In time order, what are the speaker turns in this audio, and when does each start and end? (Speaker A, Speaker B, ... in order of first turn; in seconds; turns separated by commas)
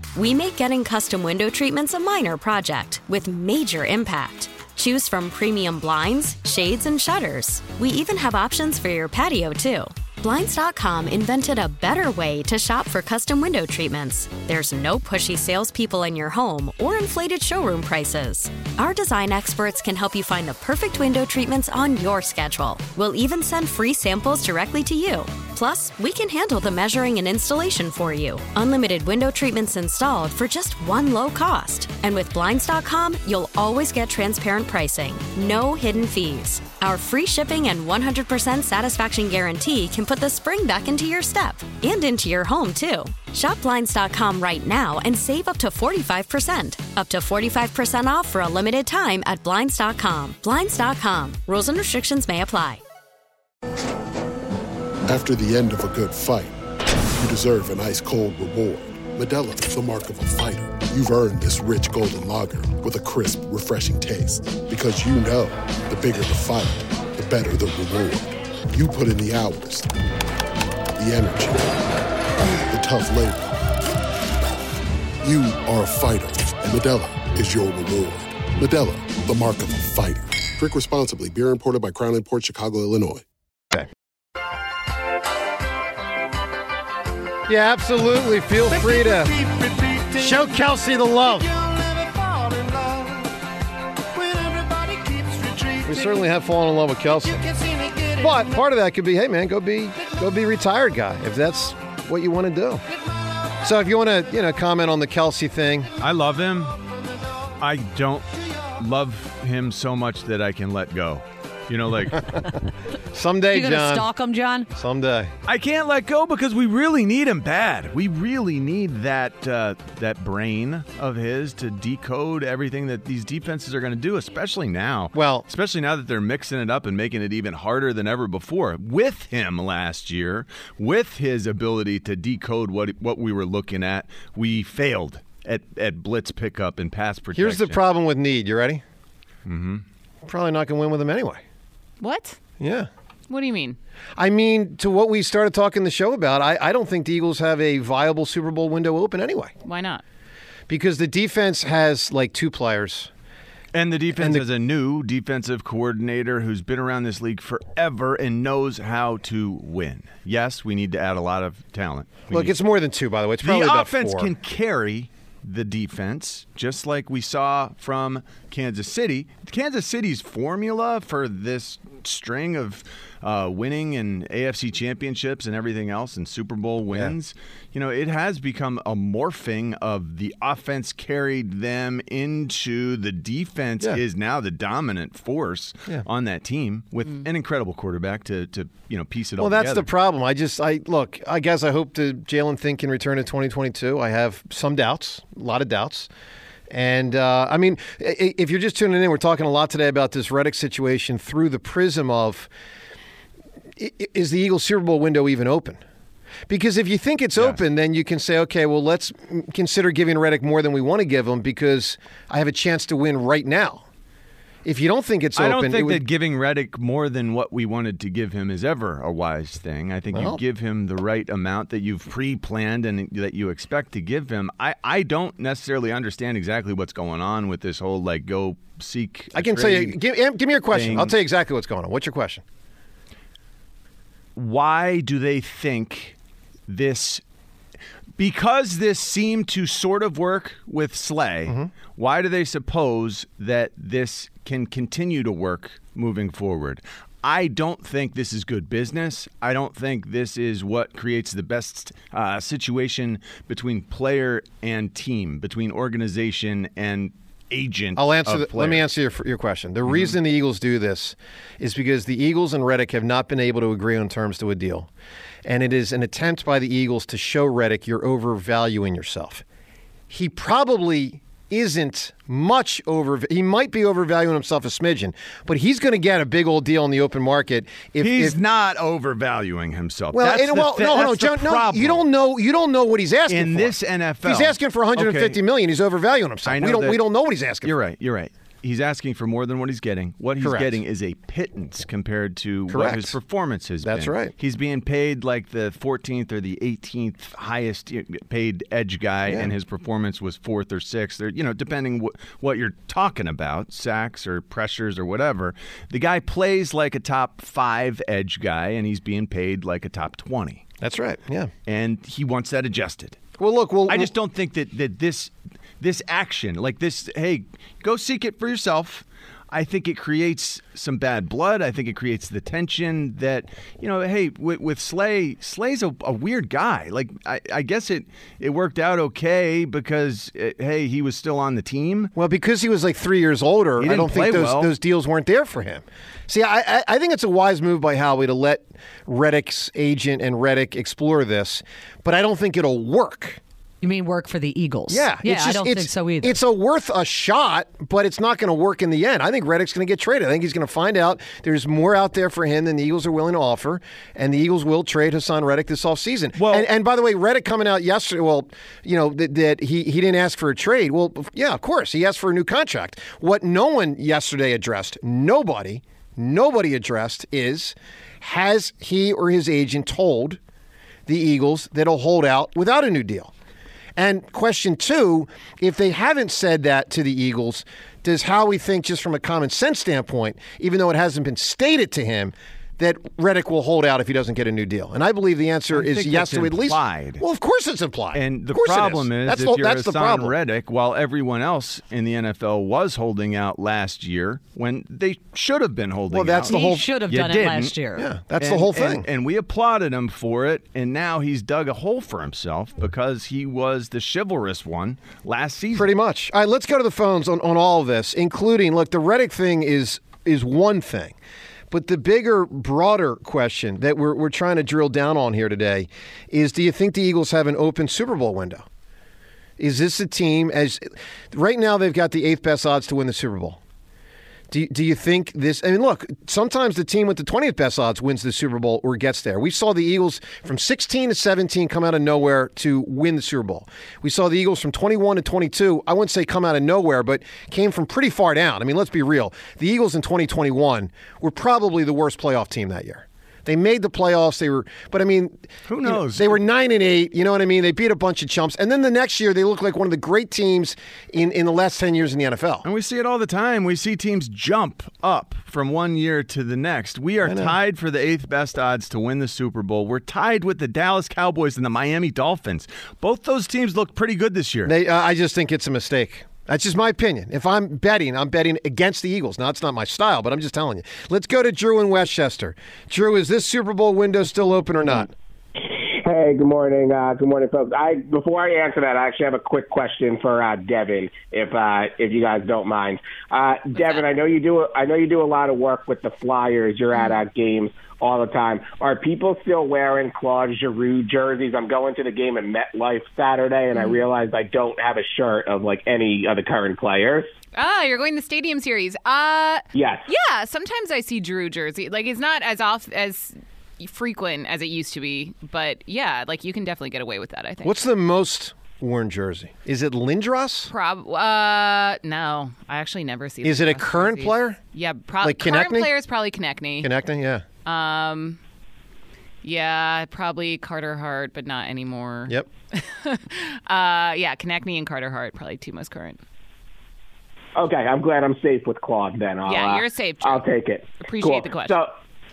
Speaker A: 0.1-52.8, Speaker B: 55.1-56.5, Speaker B: 57.2-69.9, Speaker B: 71.0-71.8, Speaker B: 72.7-73.6, Speaker B: 75.2-83.2, Speaker C: 87.5-89.4, Speaker C: 90.1-91.5, Speaker C: 95.8-97.5, Speaker C: 98.1-102.8, Speaker C: 103.6-105.9, Speaker D: 106.0-106.8, Speaker D: 107.6-112.3, Speaker C: 113.1-114.1, Speaker E: 113.5-114.7, Speaker C: 114.7-115.3, Speaker D: 115.5-137.8, Speaker C: 125.1-125.5, Speaker C: 137.3-138.8, Speaker D: 139.4-139.8, Speaker C: 140.2-141.4, Speaker F: 142.0-142.4, Speaker C: 142.6-142.9, Speaker F: 143.3-143.8, Speaker C: 144.2-149.5, Speaker F: 149.6-150.0, Speaker C: 150.7-153.1, Speaker D: 153.7-162.5, Speaker C: 154.2-154.4, Speaker C: 162.3-164.3, Speaker D: 163.4-189.9, Speaker C: 189.4-196.1, Speaker C: 196.7-202.5, Speaker C: 203.8-205.8, Speaker C: 206.5-213.8, Speaker C: 214.6-216.0, Speaker D: 215.3-230.0, Speaker C: 220.1-220.4, Speaker C: 229.3-232.4, Speaker D: 230.7-231.2, Speaker D: 234.3-236.1, Speaker D: 236.7-237.2, Speaker D: 238.2-258.8, Speaker C: 241.4-241.7, Speaker C: 257.9-264.9, Speaker D: 259.9-260.1, Speaker C: 265.4-269.4, Speaker C: 270.1-278.4, Speaker D: 278.0-282.0, Speaker C: 280.1-287.7, Speaker D: 283.3-285.4, Speaker D: 286.4-287.0, Speaker D: 287.6-310.6, Speaker C: 290.4-290.8, Speaker C: 292.7-293.1, Speaker C: 293.8-294.3, Speaker C: 310.8-311.5, Speaker D: 311.7-313.2, Speaker C: 313.4-314.1, Speaker D: 313.9-332.1, Speaker C: 332.1-343.4, Speaker D: 333.8-334.7, Speaker E: 343.8-346.4, Speaker C: 344.9-370.4, Speaker D: 356.4-356.7, Speaker C: 371.1-373.3, Speaker C: 373.9-390.3, Speaker D: 385.7-387.2, Speaker D: 388.1-397.8, Speaker C: 396.1-396.9, Speaker E: 396.5-398.1, Speaker C: 397.9-399.1, Speaker D: 398.4-405.9, Speaker C: 405.7-411.1, Speaker C: 411.7-418.6, Speaker C: 419.6-423.6, Speaker C: 424.5-452.6, Speaker D: 445.7-446.4, Speaker D: 452.6-464.7, Speaker C: 457.2-457.5, Speaker C: 464.6-475.1, Speaker G: 475.6-497.3, Speaker F: 483.7-484.0, Speaker F: 486.9-487.2, Speaker F: 493.7-494.0, Speaker F: 497.5-507.8, Speaker G: 499.7-500.1, Speaker C: 507.6-510.7, Speaker F: 510.7-516.9, Speaker C: 513.4-514.6, Speaker C: 515.2-515.9, Speaker C: 516.8-517.4, Speaker F: 517.6-518.4, Speaker F: 519.4-526.2, Speaker G: 527.5-531.9, Speaker F: 529.5-530.5, Speaker F: 531.0-531.8